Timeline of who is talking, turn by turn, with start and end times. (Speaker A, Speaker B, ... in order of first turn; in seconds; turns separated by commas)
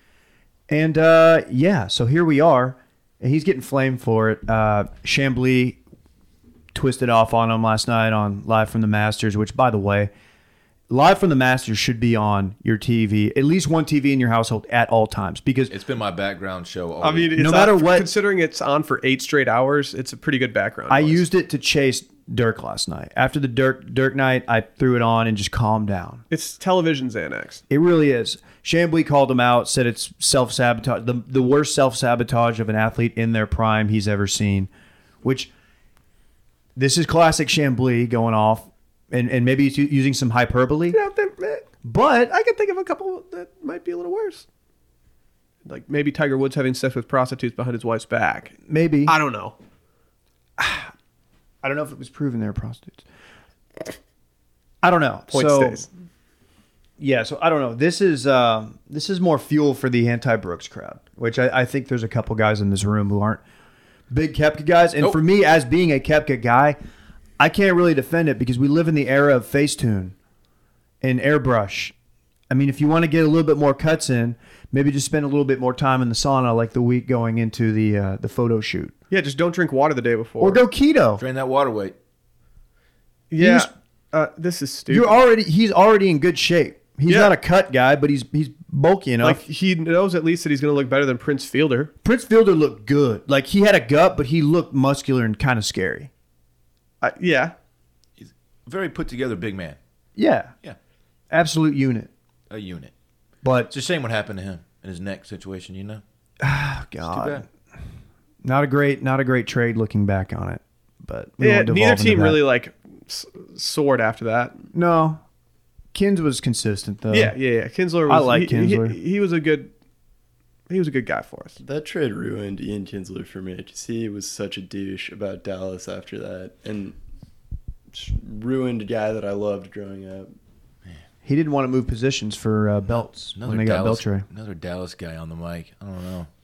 Speaker A: 0.7-5.8, Speaker A: 6.7-10.1, Speaker A: 10.9-15.7, Speaker B: 15.7-17.3, Speaker C: 17.0-21.2, Speaker A: 17.4-18.1, Speaker A: 20.9-26.2, Speaker C: 26.3-27.6, Speaker A: 27.7-34.7, Speaker A: 35.2-35.5, Speaker A: 36.8-41.0, Speaker C: 40.9-41.6, Speaker A: 41.8-42.3, Speaker C: 42.3-44.4, Speaker C: 45.6-48.5, Speaker A: 48.7-49.1, Speaker C: 49.1-49.5, Speaker A: 50.6-50.9, Speaker A: 51.6-53.0, Speaker A: 54.8-55.9, Speaker C: 55.3-55.9, Speaker A: 57.0-63.4, Speaker A: 64.1-66.8, Speaker A: 67.4-70.1, Speaker A: 71.0-71.9, Speaker A: 72.5-78.9, Speaker C: 79.1-80.6, Speaker A: 80.4-81.2, Speaker B: 81.2-81.9, Speaker C: 83.3-85.2, Speaker A: 83.4-83.7, Speaker A: 84.9-89.4, Speaker C: 87.1-87.3, Speaker C: 89.2-91.9, Speaker A: 92.0-96.1, Speaker C: 97.0-97.5, Speaker B: 98.2-99.8, Speaker A: 100.2-100.5, Speaker A: 101.3-102.1, Speaker B: 102.5-102.9, Speaker A: 103.4-103.7, Speaker B: 103.7-106.0, Speaker A: 106.4-107.4, Speaker B: 107.0-107.4, Speaker A: 108.4-112.4, Speaker C: 111.4-114.7, Speaker A: 114.7-115.2, Speaker A: 115.9-117.3, Speaker C: 117.1-119.7, Speaker A: 118.1-119.0, Speaker C: 120.7-121.6, Speaker D: 121.6-127.0, Speaker D: 127.9-130.3, Speaker A: 131.2-134.2, Speaker B: 133.3-136.3